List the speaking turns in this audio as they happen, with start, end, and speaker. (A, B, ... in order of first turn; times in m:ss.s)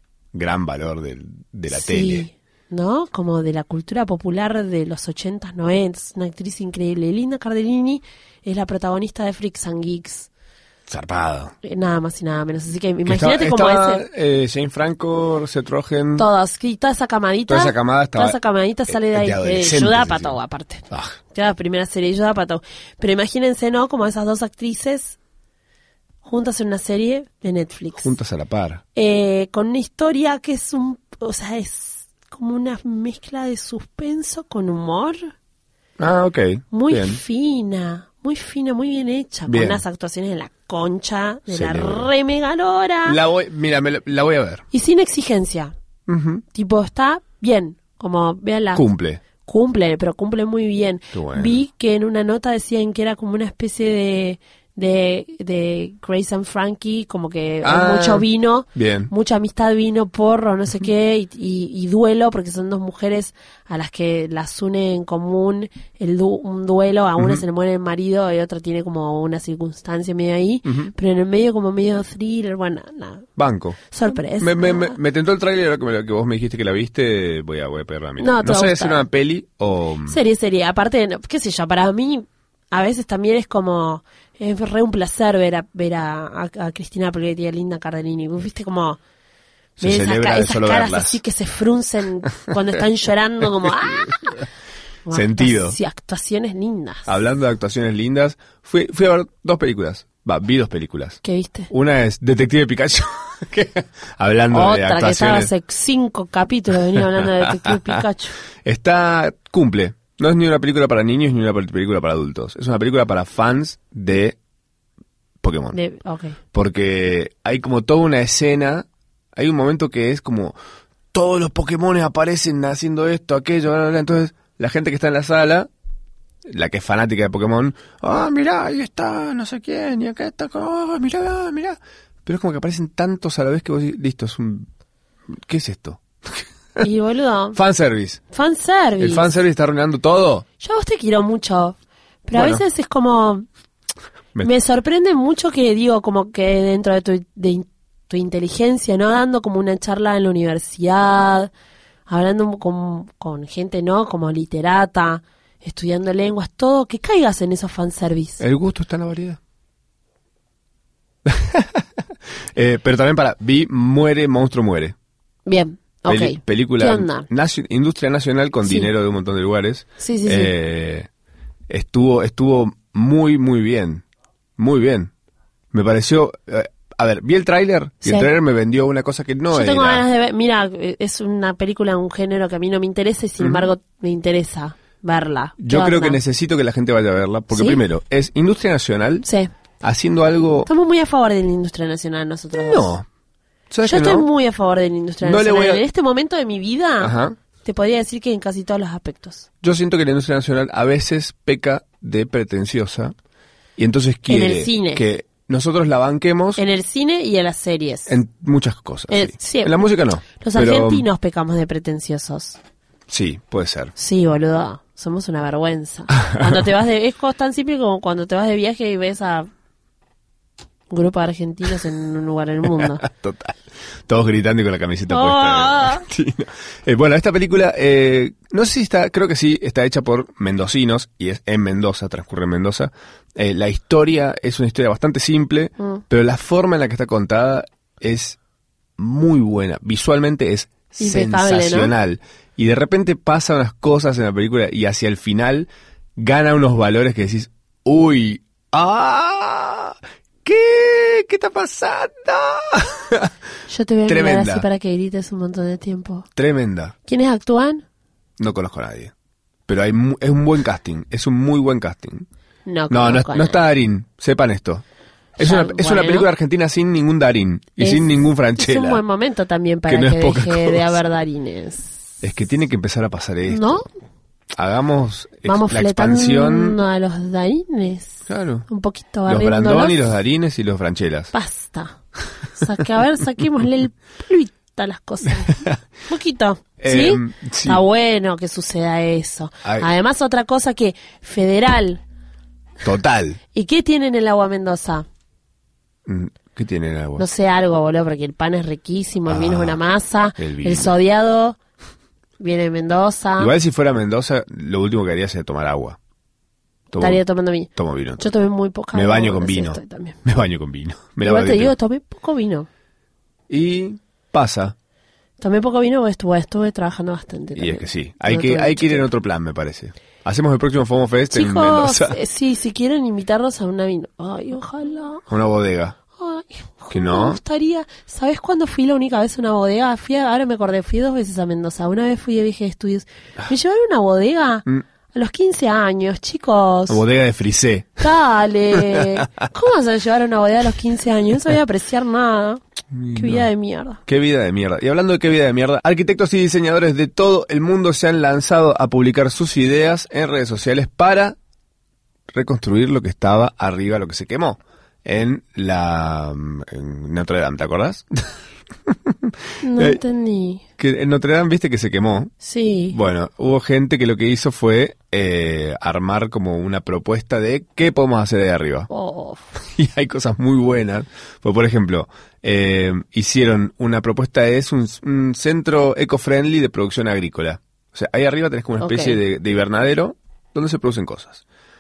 0:00.3-0:02.3 A
0:01.7-0:10.3 B
0:10.9-0:11.6 A
0:11.6-0:14.0 B
0:13.0-0:16.3 A
0:16.2-0:25.2 B
0:17.5-0:20.4 A
0:20.9-0:21.2 A
0:26.2-0:28.1 B
0:28.0-0:28.8 A
0:29.0-0:35.3 B
0:36.0-0:37.2 A
0:36.7-0:43.2 B
0:39.5-0:39.8 A
0:41.5-0:42.1 A
0:43.0-0:44.7 A
0:44.7-0:45.7 B
0:46.1-0:46.4 A
0:46.5-1:13.3 B
0:48.8-0:49.2 A
0:51.1-0:51.6 A
0:57.6-0:59.1 A
1:10.6-1:10.9 A
1:13.4-1:13.8 A
1:13.9-1:15.0 B
1:14.4-1:20.2 A
1:18.2-1:19.1 B
1:20.1-1:29.0 B
1:29.8-1:31.2 A
1:29.8-1:34.4 B
1:35.1-1:37.1 B
1:35.1-1:35.8 A
1:37.1-1:41.2 A
1:41.2-1:41.7 B
1:41.7-1:45.5 A
1:44.5-1:48.4 B
1:47.0-1:48.0 A
1:48.6-1:54.4 A
1:55.4-1:55.8 A
1:55.7-1:56.4 B
1:56.5-2:00.6 A
2:01.1-2:05.7 A
2:06.5-2:14.7 A
2:15.3-2:16.9 A
2:16.8-2:17.6 B
2:17.6-2:18.2 A
2:18.3-2:19.3 B
2:19.0-2:20.4 A
2:20.6-2:23.5 B
2:22.3-2:22.6 A
2:24.4-2:31.5 B
2:32.1-2:38.4 B
2:38.4-2:39.4 A
2:41.2-2:42.0 A
2:42.5-2:45.0 A
2:45.5-2:47.3 B
2:46.1-2:51.1 A
2:48.6-2:48.9 B
2:50.0-2:50.5 B
2:51.7-2:54.0 A
2:54.6-2:55.1 A
2:55.7-3:00.0 A
2:59.5-3:06.2 B
3:03.4-3:03.7 A
3:05.6-3:09.3 A
3:07.5-3:07.8 B
3:09.2-3:09.5 B
3:09.8-3:10.7 A
3:10.7-3:12.9 B
3:12.5-3:13.1 A
3:13.7-3:14.3 A
3:13.8-3:19.5 B
3:15.2-3:15.8 A
3:17.0-3:17.4 A
3:19.6-3:23.1 A
3:23.8-3:26.6 A
3:24.3-3:25.0 B
3:26.6-3:28.2 B
3:28.1-3:31.1 A
3:29.1-3:32.6 B
3:33.1-3:33.9 A
3:34.0-3:39.5 B
3:40.9-3:43.0 B
3:42.8-3:58.4 A
3:45.1-3:46.0 B
3:59.0-4:13.3 A
4:01.0-4:01.9 B
4:13.7-4:16.3 B
4:14.1-4:14.7 A
4:16.4-4:17.0 A
4:17.1-4:17.8 B
4:18.4-4:19.1 A
4:19.7-4:22.3 A
4:22.7-4:23.6 B
4:22.9-4:24.8 A
4:25.4-4:26.3 B
4:25.4-4:29.0 A
4:27.8-4:32.0 B
4:29.9-4:31.0 A
4:32.2-4:33.8 A
4:33.5-4:33.8 B
4:34.6-4:36.8 A
4:35.4-4:40.0 B
4:38.3-4:38.7 A
4:39.3-4:41.3 A
4:41.3-4:42.0 B
4:42.5-4:52.0 B
4:45.5-4:45.8 A
4:46.8-4:47.8 A
4:49.6-4:49.9 A
4:52.8-4:53.4 A
4:53.5-4:55.1 B
4:56.1-4:57.3 A
4:57.2-5:01.6 B
4:59.3-4:59.8 A
5:00.4-5:00.9 A
5:02.4-5:03.5 B
5:03.4-5:06.0 A
5:06.9-5:07.2 A
5:07.0-5:10.2 B
5:07.7-5:08.2 A
5:08.9-5:11.7 A
5:11.2-5:12.7 B
5:13.5-5:14.8 A
5:15.4-5:19.1 B
5:17.6-5:22.2 A
5:21.3-5:25.2 B
5:25.3-5:26.0 A
5:26.2-5:37.0 B
5:26.9-5:27.4 A
5:36.9-5:38.1 A
5:38.0-5:42.6 B
5:38.7-5:39.3 A
5:42.9-5:43.5 A
5:43.1-5:44.0 B
5:44.1-5:51.4 A
5:52.3-5:58.1 A
5:58.9-6:00.0 A
5:59.6-6:00.6 B
6:00.8-6:02.3 A
6:02.4-6:03.0 B
6:02.9-6:08.9 A
6:08.9-6:09.5 B
6:09.6-6:21.4 A
6:18.8-6:19.2 B